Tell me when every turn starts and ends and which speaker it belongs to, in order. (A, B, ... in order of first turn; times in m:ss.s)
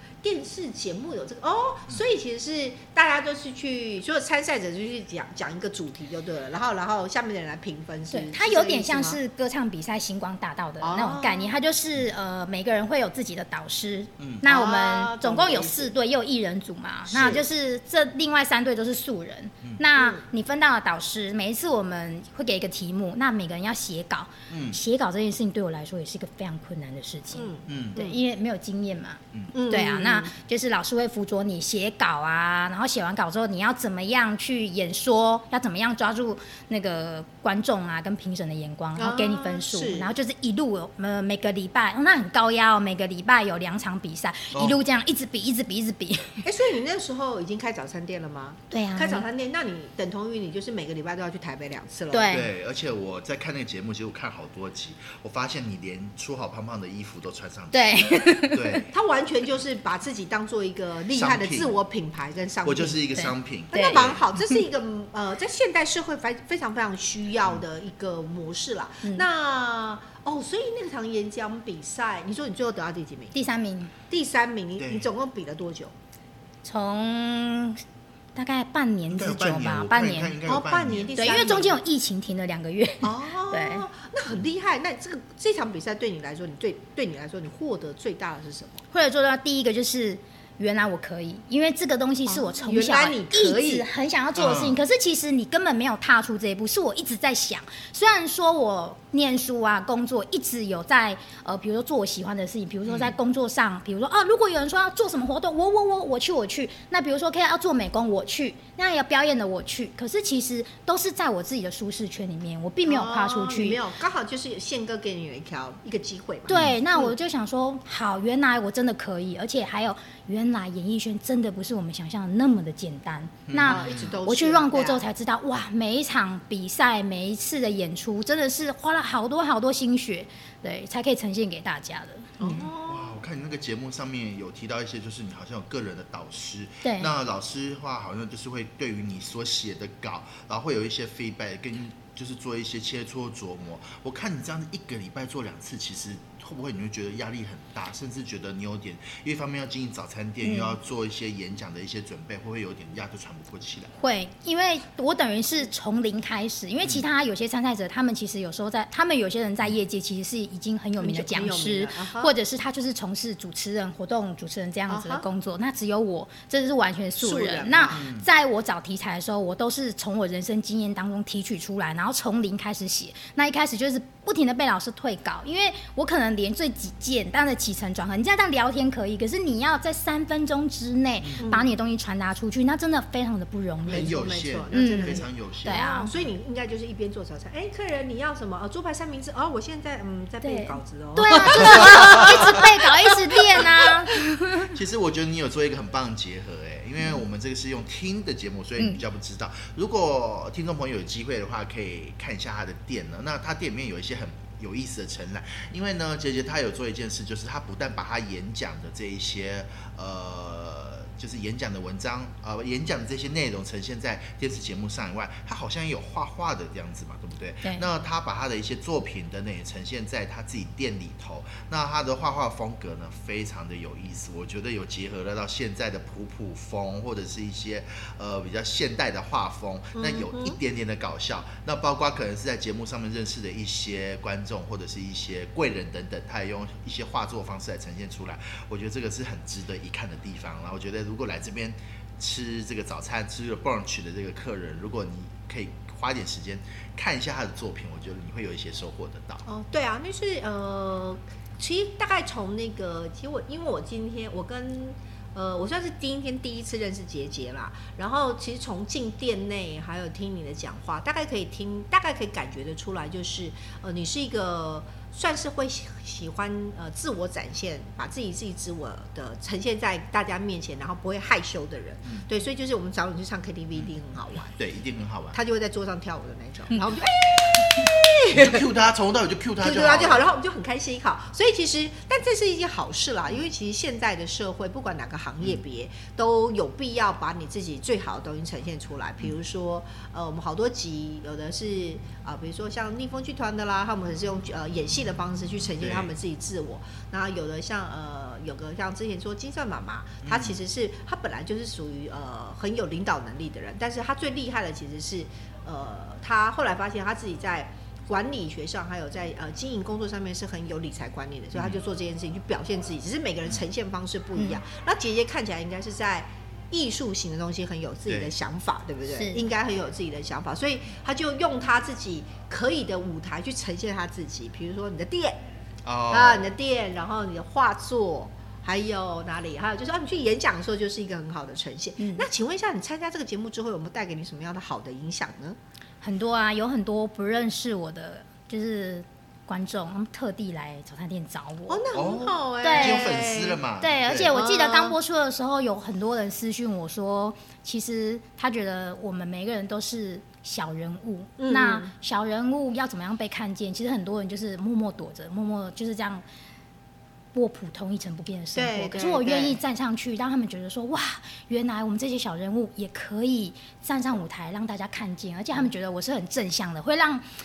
0:00.2-0:09.2 A
0:08.1-0:46.4 B
0:10.8-0:11.5 A
0:14.4-0:15.9 A
0:17.1-0:17.4 A
0:19.9-0:20.2 A
0:24.5-0:24.8 C
0:27.3-0:28.2 A
0:27.7-0:28.0 C
0:29.5-0:30.3 A
0:39.0-0:40.1 A
0:44.5-0:44.8 C
0:46.4-0:52.4 A
0:48.7-0:49.2 B
0:52.1-0:52.5 B
0:52.3-0:58.9 C
0:57.7-0:58.9 B
0:58.9-1:03.1 A
1:01.1-1:01.7 C
1:02.6-1:04.2 C
1:03.1-1:04.0 B
1:03.7-1:13.3 A
1:13.3-1:13.9 B
1:14.1-1:15.9 A
1:14.8-1:15.1 C
1:16.6-1:17.8 B
1:18.4-1:20.4 B
1:19.1-1:21.1 C
1:20.4-1:21.8 A
1:21.2-1:23.9 B
1:23.0-1:28.8 A
1:28.9-1:53.8 B
1:32.3-1:33.8 A
1:34.3-1:34.8 C
1:42.9-1:43.1 C
1:52.8-1:57.1 A
1:56.5-2:12.4 B
1:56.5-1:56.8 C
2:03.5-2:04.1 C
2:03.6-2:05.0 A
2:12.4-2:13.2 A
2:12.4-2:33.9 C
2:16.8-2:17.1 B
2:30.4-2:30.8 B
2:34.0-3:04.1 B
2:41.0-2:42.3 A
2:44.9-2:45.2 A
2:47.2-2:48.0 A
2:47.9-2:48.3 C
3:01.4-3:01.7 A
3:03.9-3:06.2 C
3:03.9-3:13.8 A
3:04.7-3:06.1 B
3:10.4-3:14.7 B
3:11.6-3:12.4 C
3:14.7-4:09.4 C
3:49.9-3:50.6 A
4:09.4-4:34.6 A
4:34.6-4:35.4 C
4:35.3-4:38.6 A
4:38.3-4:40.3 C
4:39.6-5:25.4 A
4:55.8-4:56.1 C
5:00.2-5:00.6 C
5:11.5-5:11.8 C
5:18.1-5:18.3 C
5:19.1-5:19.4 B
5:25.8-5:26.5 C
5:26.1-5:35.6 A
5:32.0-5:32.2 B
5:36.0-5:41.8 B
5:41.7-5:43.6 A
5:41.9-5:44.3 C
5:42.6-5:43.2 B
5:43.8-5:56.2 B
5:44.3-5:45.0 A
5:51.4-5:51.9 A
5:57.3-6:07.2 B
5:58.5-5:59.6 A